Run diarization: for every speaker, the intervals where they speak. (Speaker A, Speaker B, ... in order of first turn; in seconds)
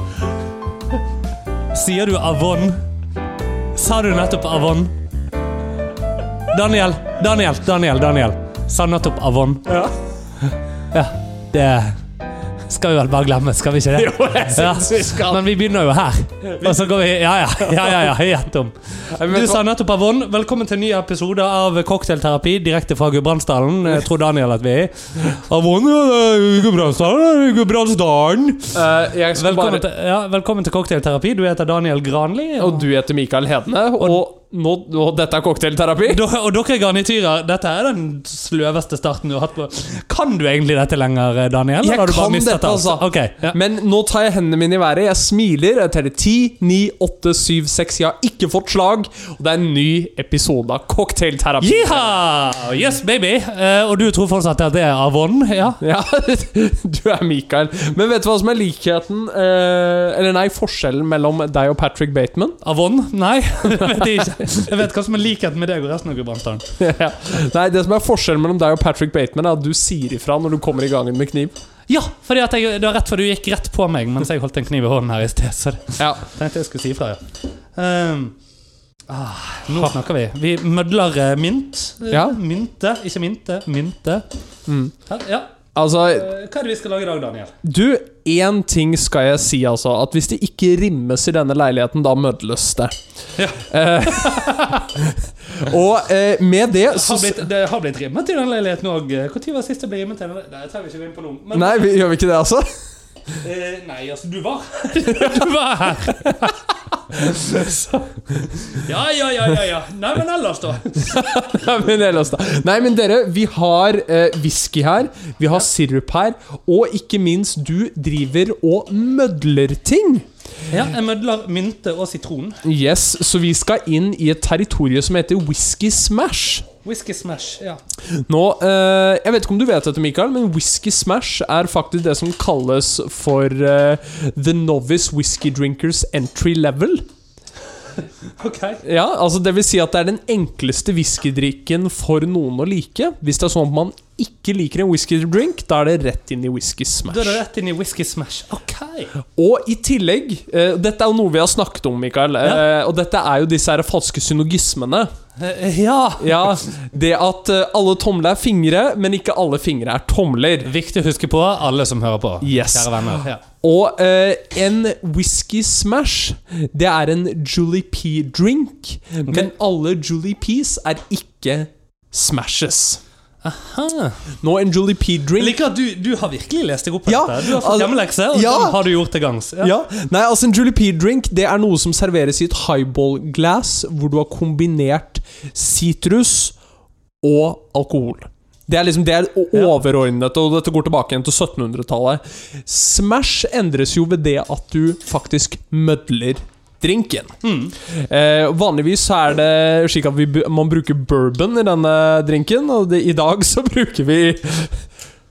Speaker A: 1.7-2.8, 3.7-4.9, 6.5-9.7, 10.9-12.0, 12.7-28.8, 29.3-32.8, 36.0-43.5, 51.6-55.8, 62.6-66.7, 71.9-78.3, 79.1-84.2, 85.1-87.5, 93.4-94.8, 96.9-102.0, 103.4-106.6, 107.1-111.2, 120.7-122.6, 126.8-127.8, 138.4-138.8, 147.1-149.1, 155.4-156.6, 160.6-163.4, 173.4-174.3, 175.4-179.7, 197.4-197.8
Speaker B: 9.7-9.9, 13.9-15.4, 16.5-16.9, 17.6-18.1, 19.1-19.6, 28.7-29.9, 32.6-36.2, 41.8-52.1, 55.8-62.6, 63.7-64.4, 66.8-71.5, 76.0-76.2, 82.1-82.4, 84.7-84.9, 85.7-86.3, 87.6-92.9, 93.5-97.4, 101.5-102.7, 105.1-106.5, 107.3-107.8, 111.0-120.2, 122.6-126.7, 128.1-137.0, 138.8-147.4, 149.3-155.1, 156.2-160.7, 162.4-173.0, 174.4-175.6, 177.1-178.8, 179.6-186.6, 187.2-204.8